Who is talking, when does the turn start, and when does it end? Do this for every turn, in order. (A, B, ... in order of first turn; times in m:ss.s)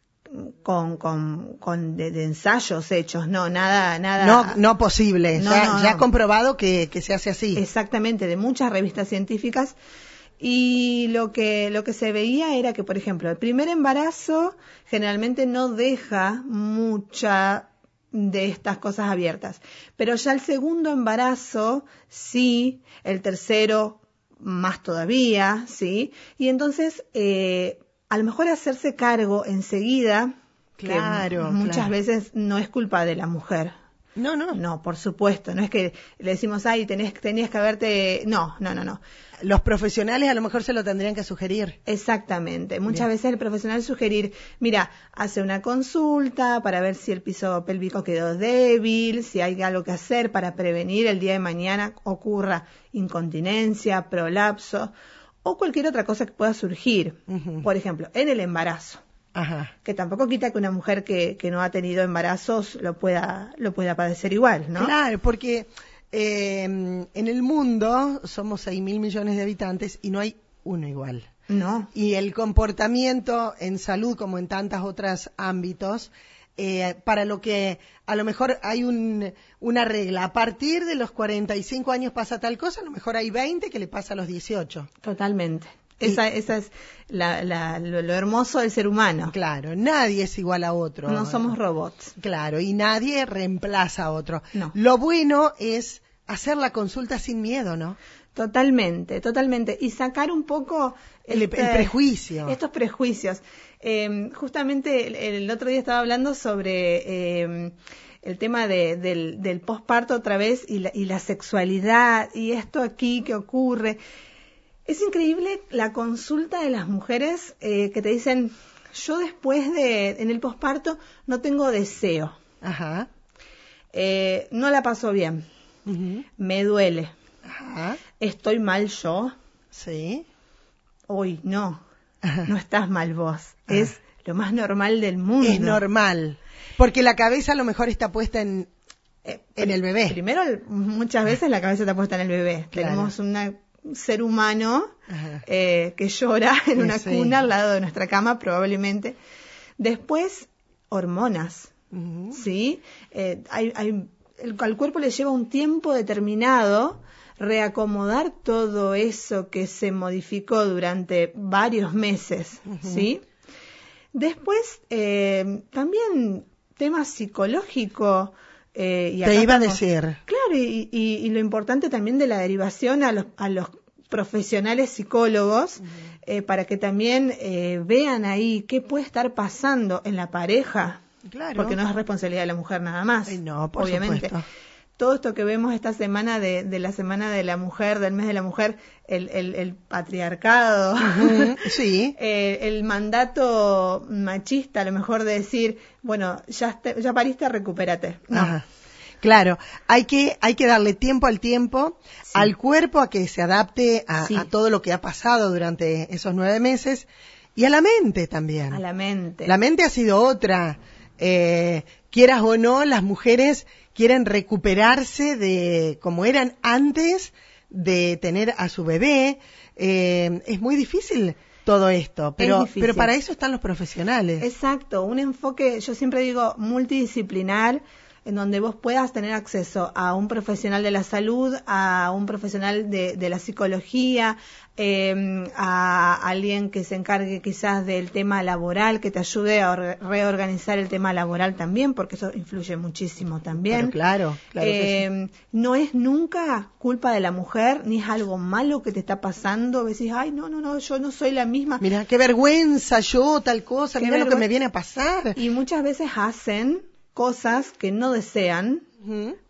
0:00.3-0:04.6 A
0:04.2-0:07.6 B
0:05.3-0:06.0 A
0:07.5-0:09.8 A
0:10.4-0:33.7 A
0:30.8-0:31.9 B
0:34.2-0:34.6 B
0:34.5-0:39.0 A
0:39.4-0:41.8 B
0:41.8-0:54.9 A
0:55.4-0:59.0 A
0:57.3-0:57.6 B
0:59.3-0:59.7 B
0:59.8-1:04.9 A
1:04.8-1:11.3 B
1:11.5-1:11.9 A
1:11.9-1:24.9 B
1:25.0-1:29.3 A
1:29.3-1:31.5 B
1:31.1-1:32.1 A
1:32.2-1:38.0 B
1:38.3-1:54.0 A
1:41.3-1:42.5 B
1:54.8-2:02.4 A
2:02.6-2:03.1 B
2:03.9-2:05.4 A
2:05.9-2:06.2 B
2:06.4-2:07.1 A
2:07.4-2:08.0 B
2:08.2-2:09.3 A
2:09.7-2:10.2 B
2:11.1-2:11.8 A
2:12.4-2:15.8 A
2:15.4-2:18.7 B
2:19.2-2:24.9 A
2:19.6-2:20.2 B
2:22.7-2:23.1 B
2:25.1-2:25.4 B
2:25.4-2:29.2 A
2:26.8-2:27.3 B
2:29.8-2:31.7 A
2:31.9-2:32.4 B
2:32.3-2:43.2 A
2:42.7-2:43.1 B
2:44.1-3:01.0 A
2:49.2-2:50.2 B
3:01.2-3:01.8 B
3:01.6-3:04.3 A
3:03.3-3:04.4 B
3:05.0-3:18.6 A
3:11.0-3:12.1 B
3:18.3-3:18.6 B
3:19.2-3:28.8 B
3:24.2-3:24.5 A
3:28.7-3:29.5 A
3:29.4-3:44.4 B
3:42.4-3:43.1 A
3:44.4-4:03.9 A
4:03.7-4:05.0 B
4:04.6-4:11.8 A
4:11.8-4:15.4 B
4:14.0-4:14.5 A
4:15.4-4:18.8 A
4:19.0-4:19.4 B